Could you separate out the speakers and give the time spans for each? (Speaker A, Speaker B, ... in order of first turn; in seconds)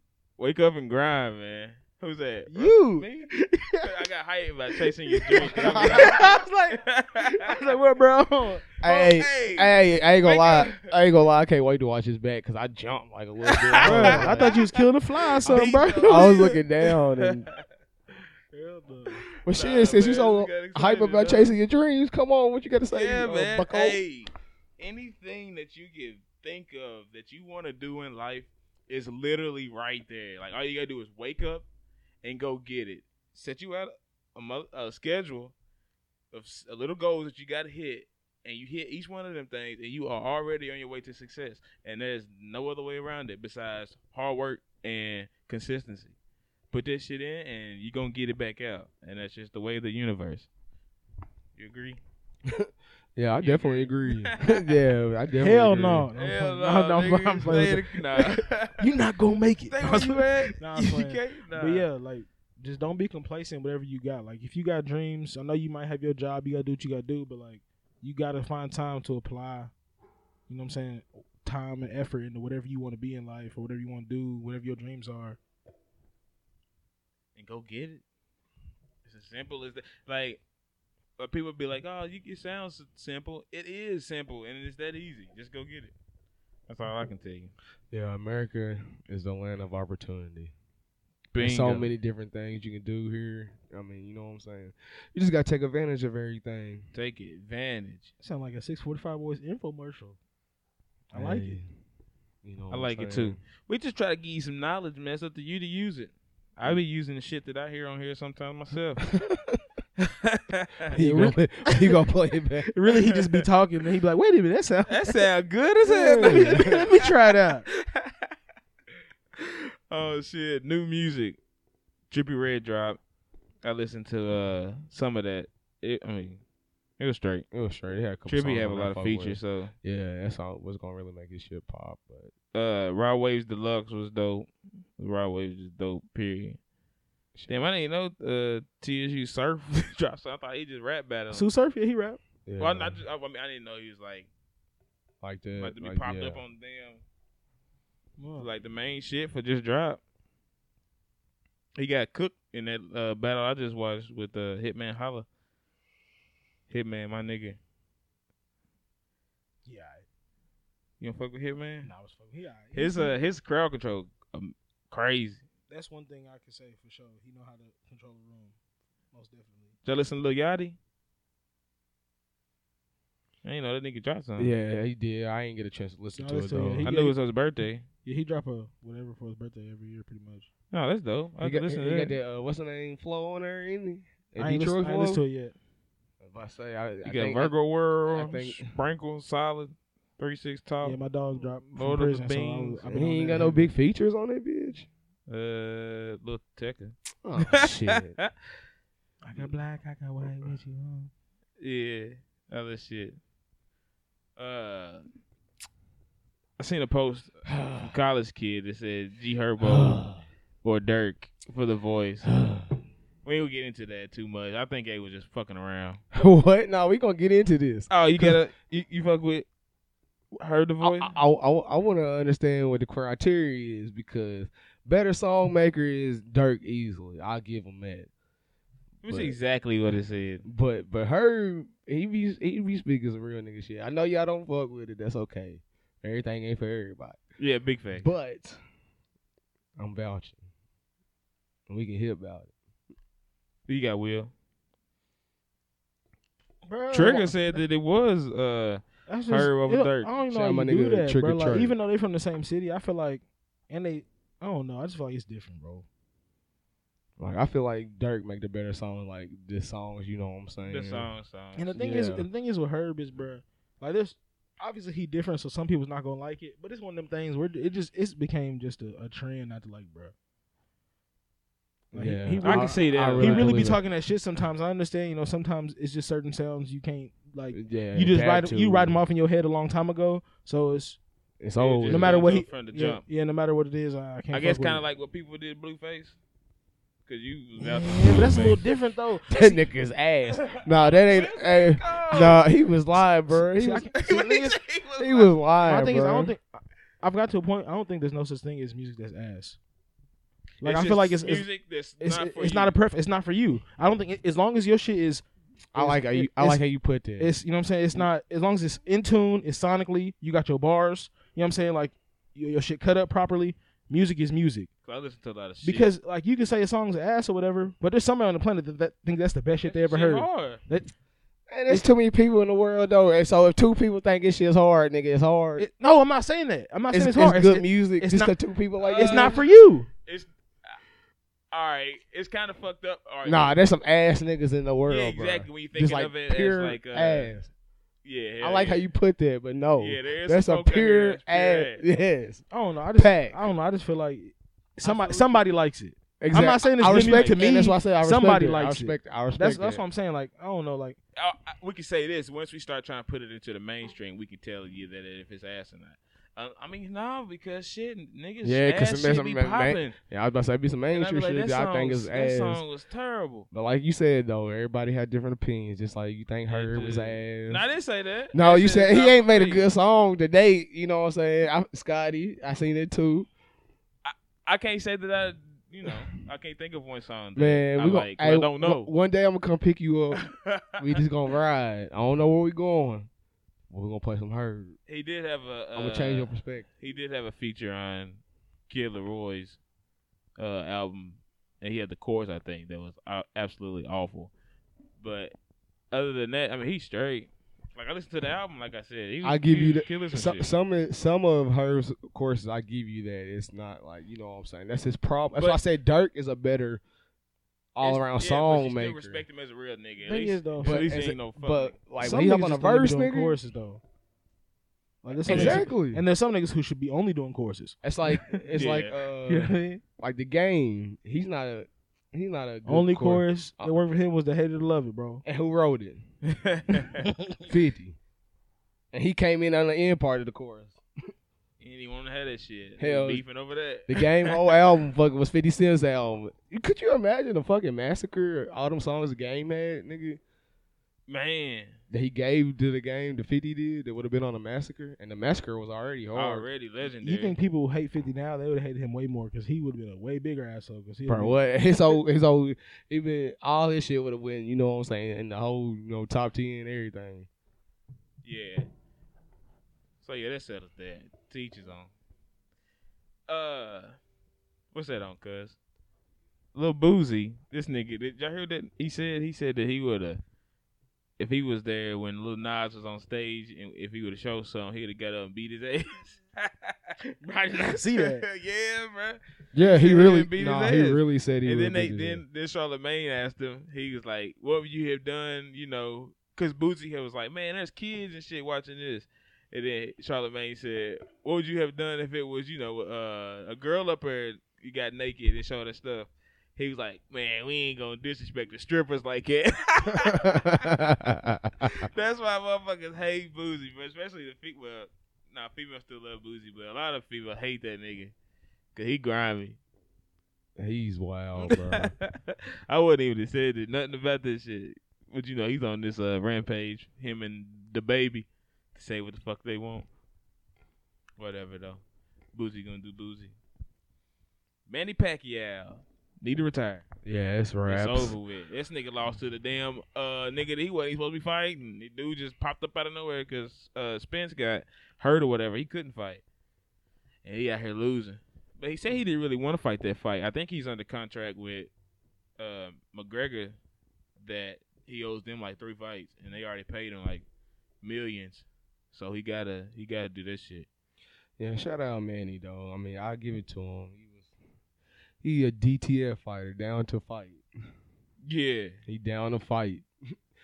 Speaker A: 0.4-7.6, 8.8-10.9, 13.4-14.8, 15.4-17.6, 19.2-21.6, 22.9-31.6, 32.2-35.5, 36.3-46.1, 46.7-50.5, 51.5-52.0, 53.4-54.8, 56.1-58.9, 59.7-61.9, 77.3-78.0, 79.0-80.4, 81.2-85.9, 86.7-87.5, 91.3-91.9, 96.9-98.1, 102.7-109.1, 110.0-110.9, 114.9-117.1, 117.7-118.3, 119.3-121.4, 122.1-123.0, 123.6-126.4, 127.0-127.5, 128.3-129.7, 132.5-136.6, 137.5-141.5, 142.6-144.3, 145.6-147.0, 148.4-150.0, 151.8-155.2, 156.7-157.6, 161.0-161.9, 162.7-165.4, 169.8-170.8, 173.4-174.5, 176.8-177.8, 180.7-182.1, 187.0-191.0, 191.7-192.8, 195.3-198.3, 201.6-203.2, 204.4-205.0, 206.6-210.0, 210.6-212.3, 213.2-216.0, 217.9-219.5, 220.4-221.1, 229.0-230.4, 237.4-238.1, 243.7-244.3, 246.9-250.1, 260.7-261.7, 272.4-273.6, 281.6-283.0, 284.3-286.2, 287.1-288.7, 290.4-292.4, 293.9-295.3, 300.6-302.8, 314.8-315.9, 319.6-320.6, 328.8-329.5, 330.0-330.8, 331.5-333.5, 334.9-337.3, 338.0-338.8, 339.8-341.8, 344.8-345.4, 346.8-347.4, 351.1-359.9, 360.9-363.5, 366.5-369.7, 374.0-378.9, 380.1-381.0, 384.9-389.6, 390.4-394.3, 395.0-395.3, 395.9-400.5, 405.4-405.6, 407.8-411.7, 415.2-415.6, 418.5-418.9, 426.3-427.1, 431.6-434.6, 441.1-441.8, 446.1-447.4, 458.2-458.6, 460.0-461.9, 463.3-464.0, 464.7-465.6, 466.5-470.2, 471.2-500.8, 501.6-508.1, 508.7-509.6, 511.4-519.9, 521.2-521.8, 522.3-523.3, 524.7-526.8, 527.7-536.2, 537.2-541.7, 542.4-543.6, 544.2-547.2, 547.8-550.7, 558.2-558.8
Speaker B: 2.5-3.9, 4.9-8.7, 13.8-16.4, 18.5-19.2, 55.4-69.7, 70.5-75.4, 98.2-100.2, 101.1-101.6, 110.9-111.4, 112.6-115.2, 115.8-117.7, 141.3-142.2, 148.2-148.5, 159.7-160.0, 161.8-163.2, 165.7-168.6, 169.1-169.7, 176.1-177.2, 178.0-180.5, 184.4-185.6, 190.8-193.7, 199.2-201.1, 246.7-247.6, 249.1-255.9, 261.6-270.1, 271.9-281.0, 281.9-284.8, 287.7-289.6, 293.3-294.6, 295.6-299.6, 300.6-301.5, 302.0-306.6, 307.2-314.7, 315.6-320.9, 325.6-328.3, 328.9-329.9, 342.5-351.0, 410.0-410.9, 412.0-413.8, 415.0-417.8, 419.2-419.8, 422.6-425.2, 446.8-451.4, 477.2-478.2
Speaker C: 5.5-6.2, 8.8-14.5, 15.5-17.4, 19.4-24.0, 52.4-56.1, 87.9-90.5, 91.4-96.9, 101.1-101.7, 102.4-103.4, 109.1-109.6, 110.9-112.7, 116.2-116.8, 127.5-132.3, 142.4-143.0, 145.2-146.4, 174.4-176.9, 181.4-185.2, 186.2-187.5, 188.1-188.7, 192.9-194.9, 197.2-198.2, 207.5-207.9, 209.6-210.2, 212.2-212.8, 216.1-218.4, 220.8-228.1, 229.1-229.3, 230.4-237.2, 238.0-238.6, 239.8-240.4, 241.7-242.5, 250.3-251.7, 257.2-261.1, 261.7-262.3, 271.9-273.8, 277.5-279.0, 281.4-282.2, 288.0-288.6, 289.3-294.0, 295.0-296.3, 305.7-307.3, 321.5-325.6, 326.9-329.4, 333.2-337.5, 338.4-342.4, 342.9-343.4, 346.2-349.8, 358.4-362.6, 363.5-367.6, 368.3-373.3, 377.4-380.3, 380.8-383.1, 383.7-384.8, 385.7-386.7, 399.2-406.8, 407.7-409.2, 410.6-413.3, 415.2-416.0, 417.8-423.7, 425.2-426.0, 427.5-428.0, 428.9-430.8, 432.8-433.2, 433.9-440.2, 441.9-446.5, 451.1-457.3, 479.5-482.2, 500.2-501.9, 510.6-511.9, 527.0-528.1, 551.4-554.3, 555.2-557.5, 558.9-559.9